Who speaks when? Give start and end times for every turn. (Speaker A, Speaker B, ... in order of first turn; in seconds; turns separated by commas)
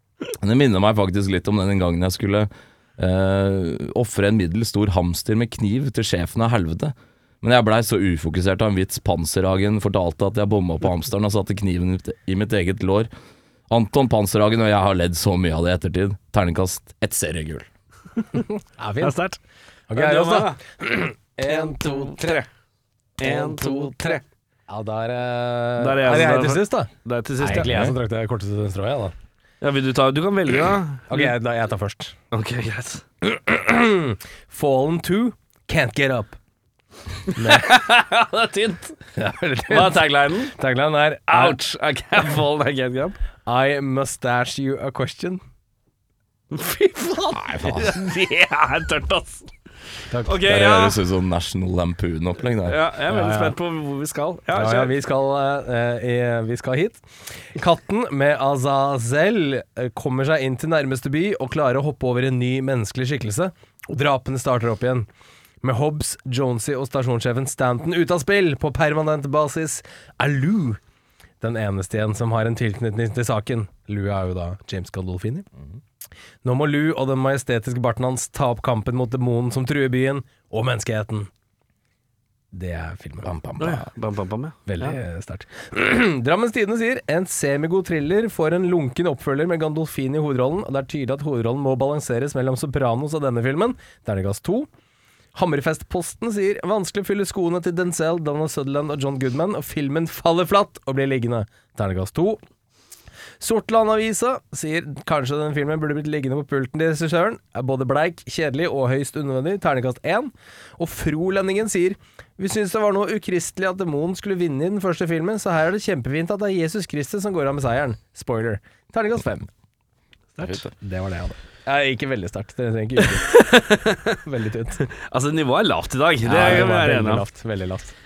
Speaker A: 0.4-13.1, Speaker A: 13.7-17.7, Speaker B: 18.4-19.2, Speaker C: 19.0-19.4, Speaker B: 19.9-22.4, Speaker C: 19.9-20.6, Speaker C: 21.6-22.5, Speaker C: 23.2-24.2, Speaker B: 23.2-29.1, Speaker C: 25.8-27.7, Speaker A: 27.6-27.9, Speaker C: 29.6-31.3, Speaker B: 31.1-32.2, Speaker C: 32.3-33.1, Speaker B: 33.2-36.4, Speaker C: 37.3-39.0, Speaker B: 37.4-37.7, Speaker B: 39.2-41.6, Speaker C: 39.7-40.5, Speaker C: 41.3-43.2, Speaker B: 43.5-45.4, Speaker C: 46.5-49.5, Speaker A: 47.4-48.0, Speaker B: 50.1-50.4, Speaker C: 50.2-51.0, Speaker A: 50.5-52.8, Speaker C: 52.6-54.9, Speaker B: 53.1-53.6, Speaker B: 54.5-65.1, Speaker B: 65.6-70.8, Speaker B: 71.4-75.5, Speaker B: 76.4-81.3, Speaker B: 82.5-83.3, Speaker A: 83.2-83.9, Speaker C: 83.6-85.0, Speaker B: 84.7-94.7, Speaker B: 95.3-102.4, Speaker B: 103.4-119.5, Speaker C: 120.4-120.7, Speaker B: 120.7-123.4, Speaker C: 123.0-124.2, Speaker B: 124.2-124.9, Speaker C: 124.9-127.2, Speaker B: 126.2-127.9